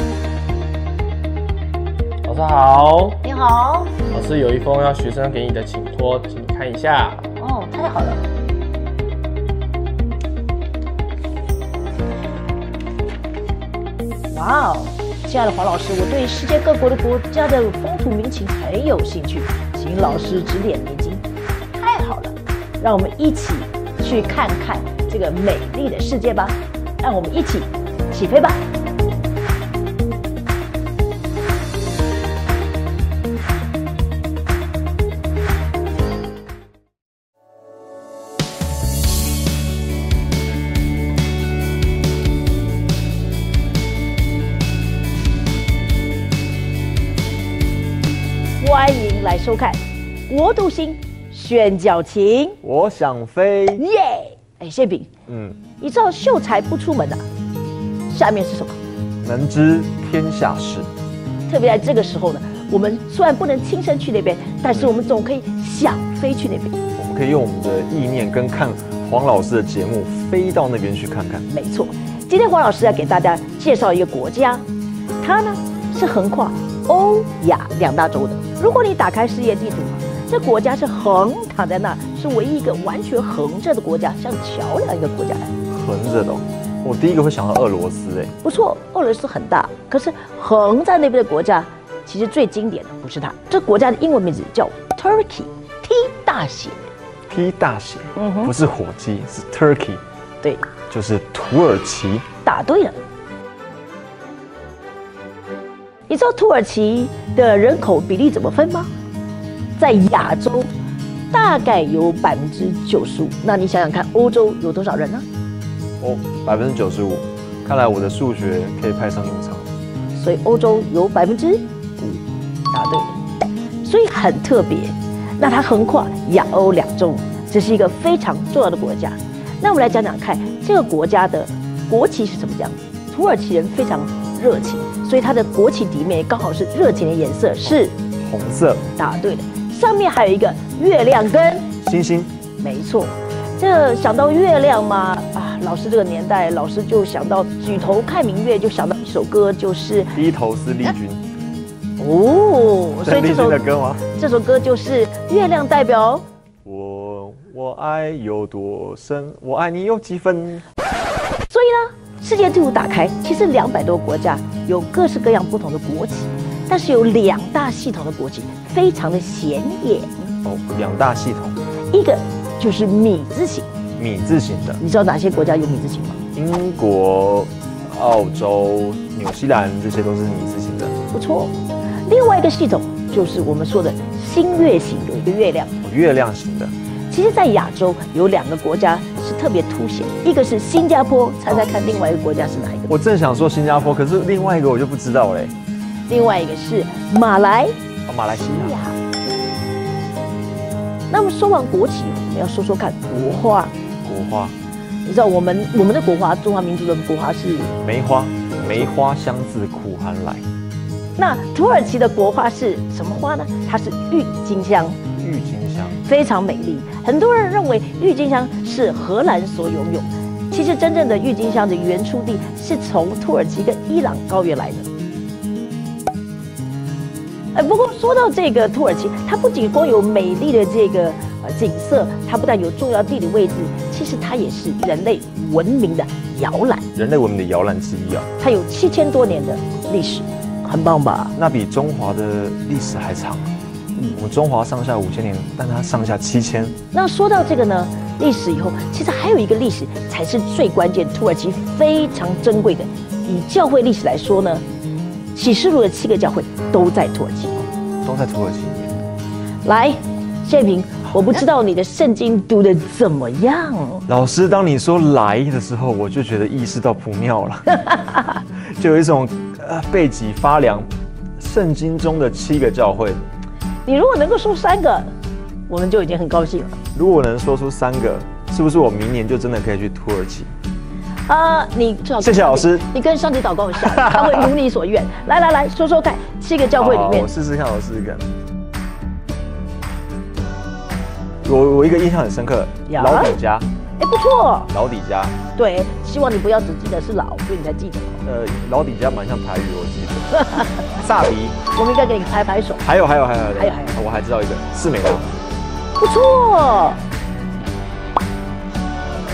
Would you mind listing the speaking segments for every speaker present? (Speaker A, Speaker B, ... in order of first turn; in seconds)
Speaker A: 2.2-3.2, 4.1-7.3
Speaker B: 3.2-4.0, 7.4-8.2, 14.3-28.6, 48.6-52.6, 53.8-55.1, 55.8-57.2, 58.1-58.8, 61.5-66.8, 71.5-74.6, 75.2-85.5, 88.4-96.9, 98.2-98.5, 100.4-100.7, 102.4-103.0, 106.1-108.9, 109.8-110.7, 111.3-115.3, 120.1-123.1, 123.8-138.0, 139.0-141.7, 142.6-150.2, 152.0-153.6, 154.1-156.2, 161.5-170.3, 171.9-173.7, 174.8-176.2, 181.1-185.8, 187.1-192.9, 196.1-197.7, 198.5-199.0, 201.1-203.7, 205.1-207.7, 211.2-215.0, 216.0-224.9, 227.5-236.9, 238.4-241.3, 246.9-254.6, 255.3-257.6, 259.6-264.1, 267.7-268.4, 273.9-275.1, 275.7-276.8, 281.3-287.3, 292.9-293.4, 294.0-294.7, 295.6-298.2, 300.4-300.8, 301.8-302.9, 303.6-304.0, 306.0-307.0
Speaker C: 52.6-53.8, 55.3-55.6, 59.2-60.9, 67.0-71.5, 85.7-88.3, 97.3-100.0, 100.9-102.3, 116.0-119.7, 138.2-138.9, 141.8-142.3, 150.2-151.2, 153.1-154.1, 156.7-160.7, 170.4-171.6, 174.0-174.8, 176.3-181.0, 185.8-186.7, 192.9-195.5, 198.1-198.8, 204.0-204.6, 207.7-210.5, 215.1-216.0, 236.9-238.3, 241.4-246.8, 258.0-259.0, 264.1-267.9, 268.5-270.9, 271.4-273.2, 276.9-280.5, 282.2-282.9, 284.0-284.5, 286.8-288.3, 291.4-293.7, 294.7-295.4, 298.2-301.6, 302.8-305.3